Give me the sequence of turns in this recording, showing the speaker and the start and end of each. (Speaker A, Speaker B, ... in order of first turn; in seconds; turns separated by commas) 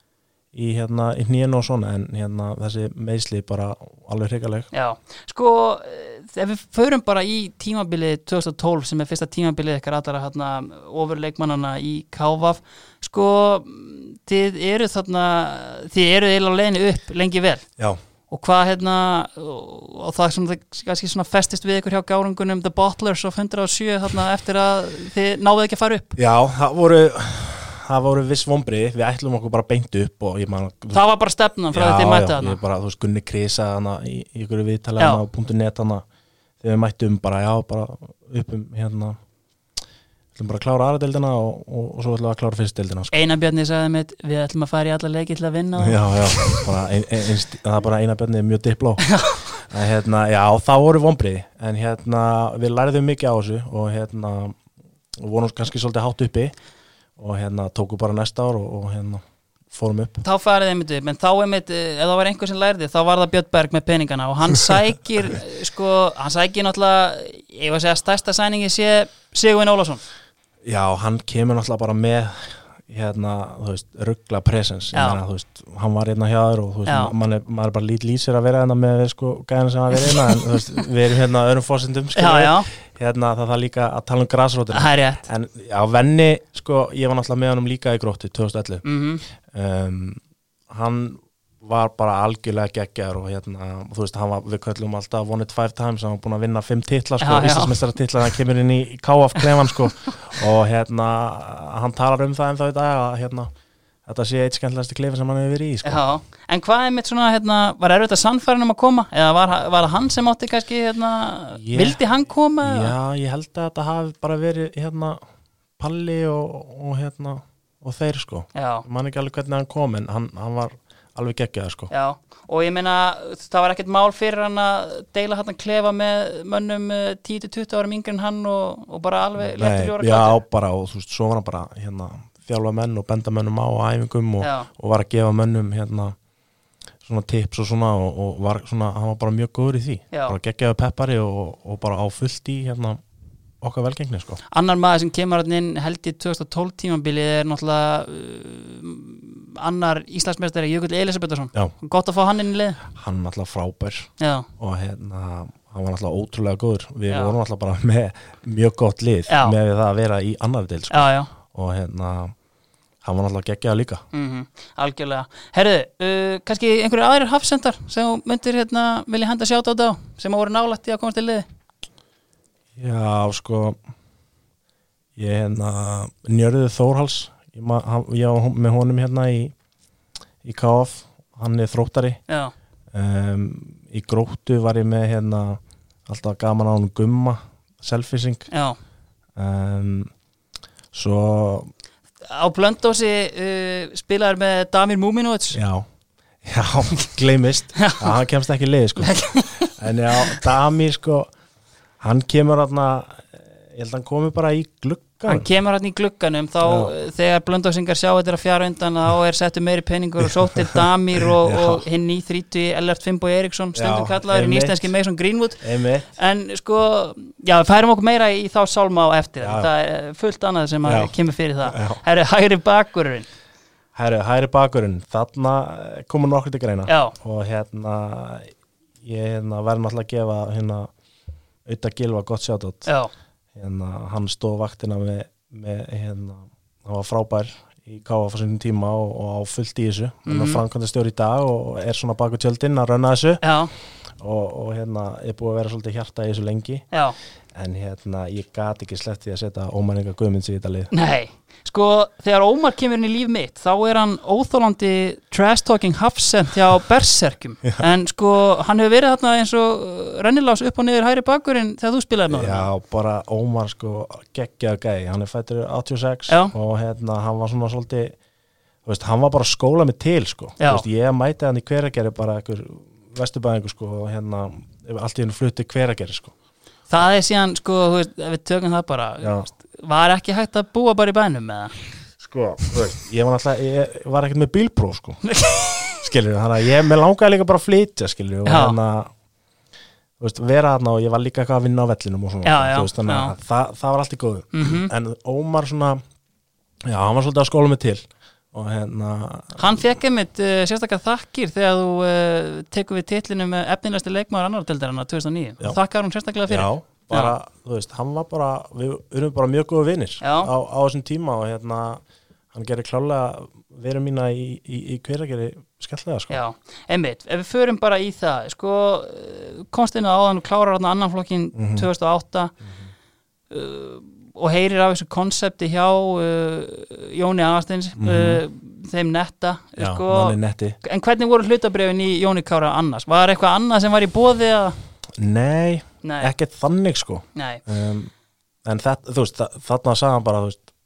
Speaker A: 0.5-4.7, Speaker B: 4.7-17.6, Speaker B: 18.3-26.2, Speaker A: 26.2-31.0, Speaker B: 30.9-32.6, Speaker A: 31.7-36.0, Speaker A: 36.6-39.2, Speaker A: 40.4-43.1, Speaker B: 43.1-46.7, Speaker A: 45.8-49.1, Speaker B: 49.0-49.6, Speaker A: 49.6-54.6, Speaker A: 55.2-56.5, Speaker A: 57.2-60.2, Speaker B: 60.2-70.0, Speaker A: 70.6-88.8, Speaker B: 74.9-75.2, Speaker B: 76.9-77.1, Speaker B: 80.0-80.6, Speaker B: 82.2-82.7, Speaker B: 84.7-85.3, Speaker B: 88.8-89.2, Speaker A: 89.5-103.5, Speaker B: 97.2-97.8, Speaker A: 104.1-106.0, Speaker B: 105.8-112.9, Speaker A: 111.5-112.0, Speaker A: 112.6-115.2, Speaker A: 115.8-121.9, Speaker B: 118.5-118.9, Speaker B: 121.9-130.4, Speaker A: 129.6-136.2, Speaker B: 134.4-134.7, Speaker A: 137.0-143.0, Speaker A: 143.6-144.4, Speaker B: 144.5-152.8, Speaker A: 152.9-162.3, Speaker B: 154.2-154.5, Speaker B: 157.1-157.3, Speaker B: 159.3-159.6, Speaker B: 160.9-161.3, Speaker A: 163.0-164.0, Speaker B: 164.1-171.5, Speaker A: 172.8-173.8, Speaker A: 175.2-179.5, Speaker A: 180.4-182.2, Speaker B: 182.3-182.5, Speaker A: 182.9-188.5, Speaker B: 188.5-188.8, Speaker A: 189.4-190.1, Speaker A: 190.9-191.7, Speaker B: 192.3-195.6, Speaker A: 195.5-195.8, Speaker A: 196.4-201.3, Speaker B: 197.8-198.1, Speaker B: 199.0-200.4, Speaker A: 202.0-205.5, Speaker B: 205.3-215.6, Speaker A: 206.6-206.9, Speaker A: 210.6-211.8, Speaker A: 213.8-214.9, Speaker A: 215.6-216.1, Speaker B: 216.2-223.3, Speaker A: 219.4-219.7, Speaker A: 220.8-222.0, Speaker A: 223.9-230.9, Speaker B: 226.9-227.2, Speaker A: 231.7-232.9, Speaker B: 232.8-233.1, Speaker A: 233.6-243.4, Speaker B: 240.3-240.6, Speaker B: 243.4-243.7, Speaker A: 244.2-246.9, Speaker A: 247.5-250.9, Speaker B: 250.9-262.7, Speaker A: 262.3-268.1, Speaker B: 266.3-266.5, Speaker A: 268.9-276.3, Speaker B: 270.6-270.9, Speaker B: 276.9-281.7, Speaker A: 279.2-279.5, Speaker A: 282.2-285.2, Speaker B: 285.3-286.0, Speaker A: 286.0-289.1, Speaker B: 288.5-288.8, Speaker A: 290.2-296.0, Speaker B: 292.4-293.3, Speaker B: 294.5-294.9, Speaker A: 296.9-299.6, Speaker B: 299.6-307.4, Speaker A: 306.5-312.0, Speaker B: 310.2-310.5, Speaker A: 312.5-316.4, Speaker B: 316.3-322.5, Speaker A: 321.6-321.9, Speaker B: 323.5-334.8, Speaker A: 328.0-328.4, Speaker A: 329.8-330.8, Speaker A: 335.2-338.1, Speaker B: 336.0-336.3, Speaker B: 337.4-337.6, Speaker A: 338.6-340.6